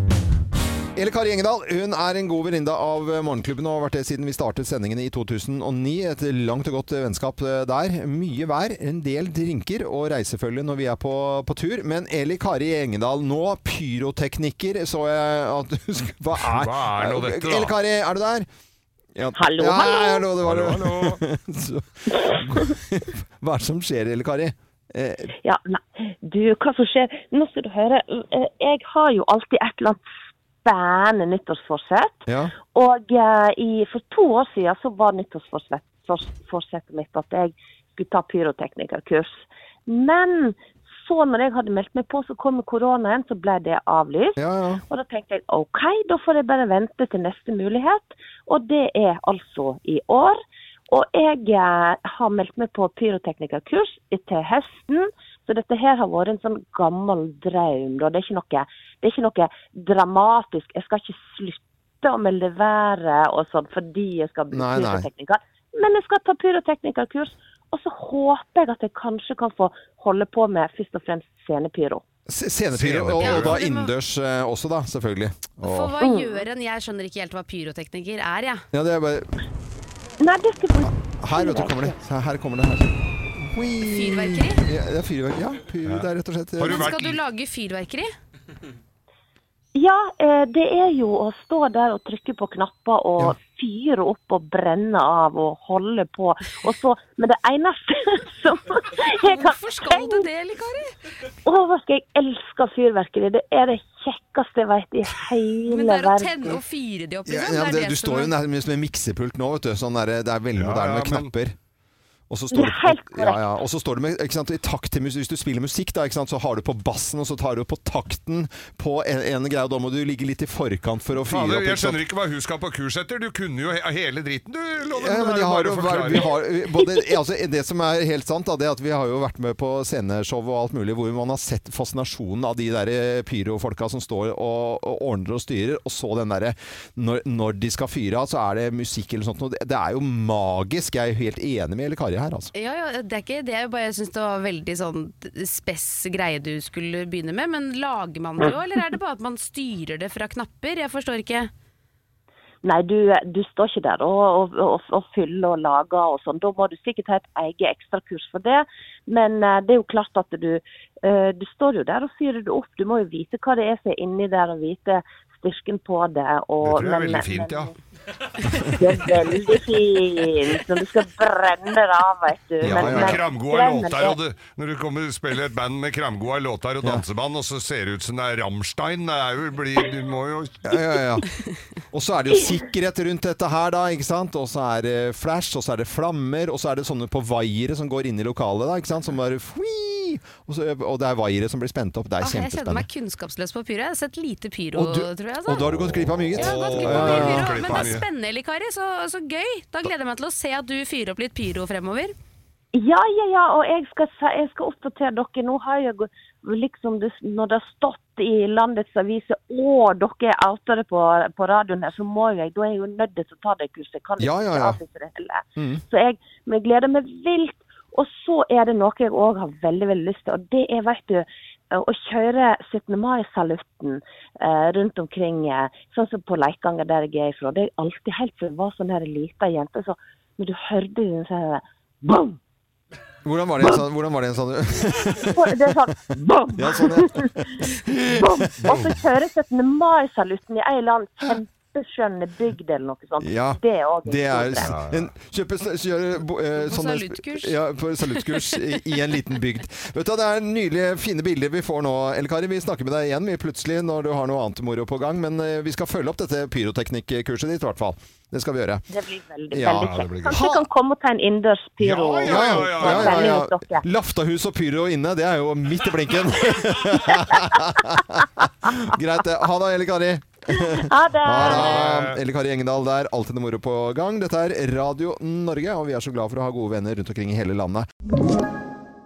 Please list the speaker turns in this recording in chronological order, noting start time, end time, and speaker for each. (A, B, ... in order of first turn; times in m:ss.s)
0:01.0-0:18.5 A
0:16.3-0:17.8 B
0:19.2-0:25.3 A
0:19.4-0:20.3 C
0:20.4-0:21.2 B
0:25.4-0:30.0 C
0:30.6-0:44.4 C
0:32.3-0:32.5 A
0:44.4-0:44.8 A
0:44.9-1:12.0 C
1:04.5-1:05.1 A
1:12.3-1:16.0 A
1:12.7-1:13.6 B
1:13.2-1:13.9 D
1:15.6-1:18.6 D
1:16.0-1:16.4 C
1:18.7-1:19.3 A
1:20.2-1:21.9 C
1:21.2-1:26.9 A
1:23.8-1:24.6 D
1:25.8-1:27.2 B
1:26.6-1:28.1 D
1:29.8-1:40.3 C
1:39.2-1:41.0 D
1:41.4-1:46.5 C
1:45.6-1:48.3 D
1:47.3-1:51.6 A
1:50.6-1:51.3 B
1:52.3-2:02.0 A
1:52.5-1:53.4 C
2:01.2-2:06.4 B
2:05.0-2:22.5 A
2:22.5-2:31.5 D
2:32.6-2:47.7 C
2:46.6-2:47.7 B
2:48.5-2:54.2 C
2:52.6-2:53.2 A
2:52.6-3:00.8 B
3:00.6-3:01.3 A
3:01.9-3:12.9 A
3:12.2-3:15.7 D
3:14.8-3:17.9 A
3:16.3-3:22.1 D
3:16.4-3:18.1 B
3:22.7-3:52.4 C
3:34.2-3:34.8 A
3:35.6-3:35.8 A
3:53.2-3:55.6 A
3:55.2-4:04.7 C
3:56.6-3:58.9 A
4:03.2-4:18.8 A
4:04.6-4:05.1 B
4:06.6-4:08.6 D
4:18.9-4:23.8 C
4:19.5-4:20.6 A
4:19.8-4:20.4 B
4:21.8-4:23.4 B
4:22.3-4:37.9 A
4:30.7-4:31.9 C
4:31.4-4:32.2 B